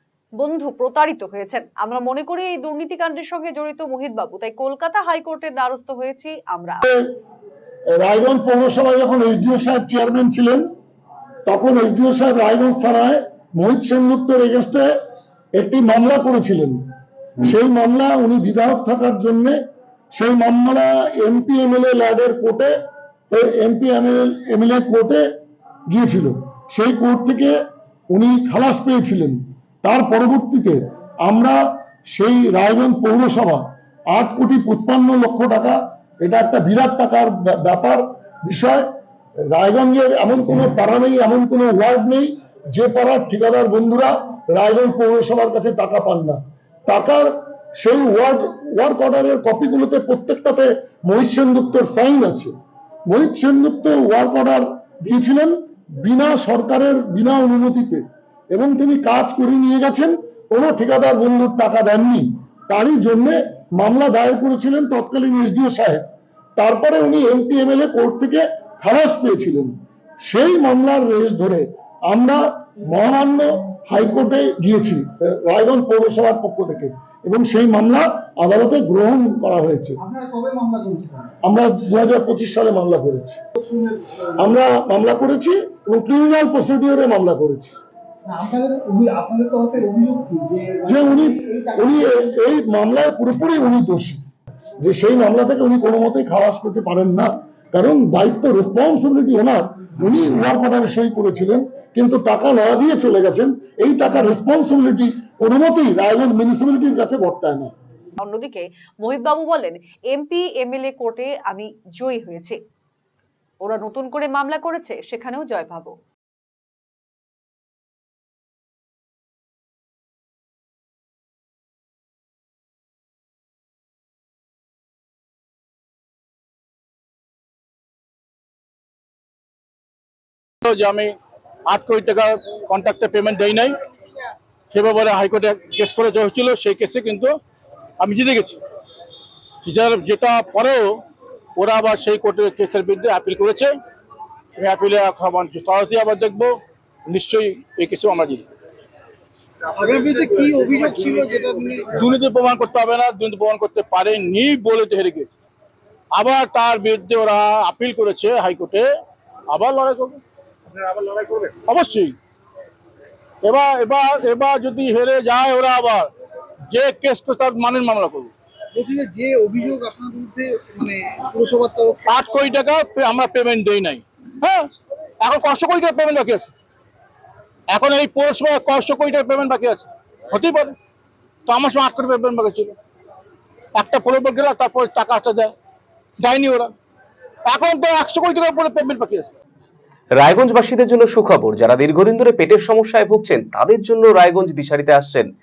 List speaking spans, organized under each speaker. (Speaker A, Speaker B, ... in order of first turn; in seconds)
Speaker A: 0.4-6.8, 108.2-112.6, 113.6-115.9
Speaker B: 8.0-10.6, 11.5-14.9, 15.6-16.8, 17.4-19.6, 20.1-22.7, 23.3-25.2, 25.9-27.6, 28.1-31.6, 32.1-38.8, 39.5-52.5, 53.1-66.0, 66.6-69.7, 70.2-80.0, 81.4-83.4, 84.4-87.7, 90.9-94.2, 94.8-107.7
Speaker C: 80.0-81.3, 83.6-84.3, 88.3-92.0, 149.8-152.0, 161.2-161.5, 168.7-172.5
Speaker D: 130.6-131.1, 131.7-133.7, 134.7-137.3, 138.0-138.6, 139.6-141.0, 141.6-143.7, 144.5-148.4, 149.8-151.3, 151.9-155.3, 156.2-158.9, 159.5-160.2, 161.6-162.1, 163.4-166.1, 166.7-168.3, 172.1-174.7, 175.2-176.5, 177.7-180.8, 181.5-182.8, 183.8-185.5, 186.2-186.7, 187.4-189.3
Speaker E: 190.2-195.3